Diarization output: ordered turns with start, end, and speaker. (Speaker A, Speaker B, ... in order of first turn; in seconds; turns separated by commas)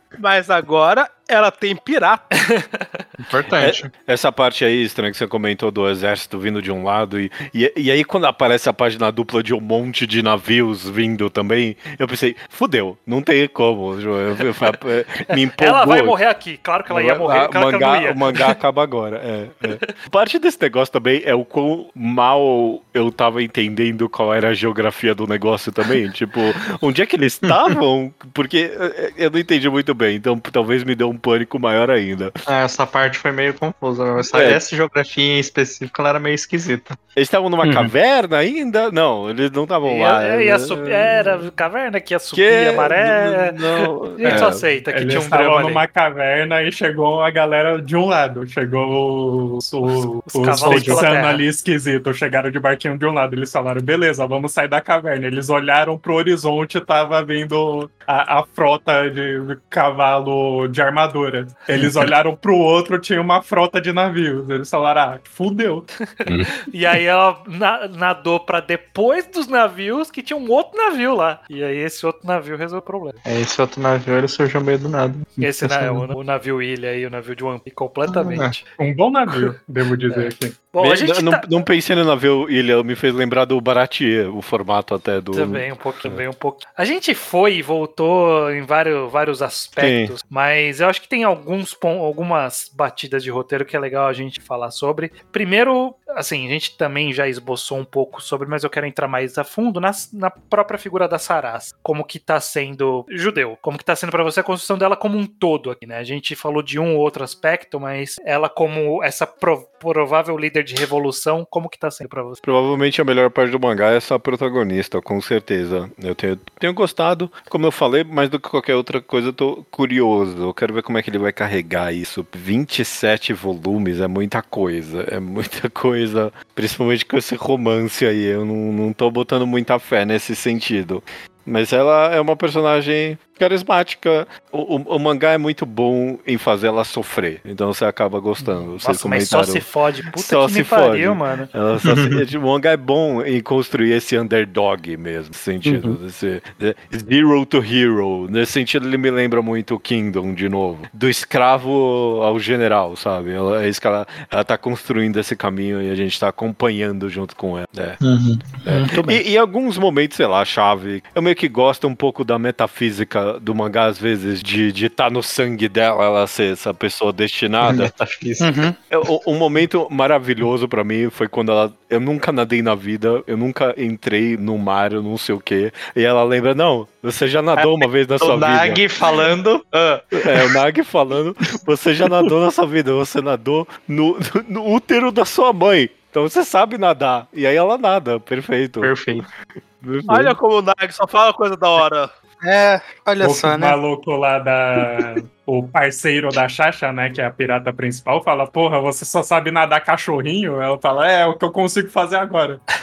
Speaker A: 0.2-2.2, Speaker B: 2.3-3.0, Speaker C: 3.2-3.9, Speaker D: 3.5-16.2, Speaker B: 15.5-18.5, Speaker D: 16.9-32.3, Speaker C: 27.4-27.7, Speaker C: 32.5-37.0, Speaker D: 34.3-34.6, Speaker D: 37.1-41.5, Speaker E: 37.6-37.9, Speaker B: 39.8-45.8, Speaker D: 42.3-44.6, Speaker F: 44.2-65.9, Speaker B: 50.2-51.5, Speaker C: 50.5-51.0, Speaker B: 66.7-73.2, Speaker C: 73.2-76.1, Speaker B: 75.4-78.6, Speaker C: 78.0-78.6, Speaker F: 78.8-80.6, Speaker B: 80.1-81.4, Speaker D: 80.8-86.2, Speaker B: 85.3-112.4, Speaker D: 89.8-90.1, Speaker D: 112.4-158.0, Speaker B: 138.8-141.5, Speaker C: 141.8-142.2, Speaker E: 145.6-146.0, Speaker C: 158.0-158.6, Speaker D: 158.6-167.9, Speaker B: 158.7-159.2, Speaker C: 167.6-168.5, Speaker B: 168.4-168.7, Speaker D: 168.9-179.2, Speaker C: 177.6-180.5, Speaker D: 180.1-188.9, Speaker C: 188.8-189.2, Speaker D: 189.8-190.3, Speaker A: 190.1-192.1, Speaker E: 192.4-193.8, Speaker F: 193.2-202.6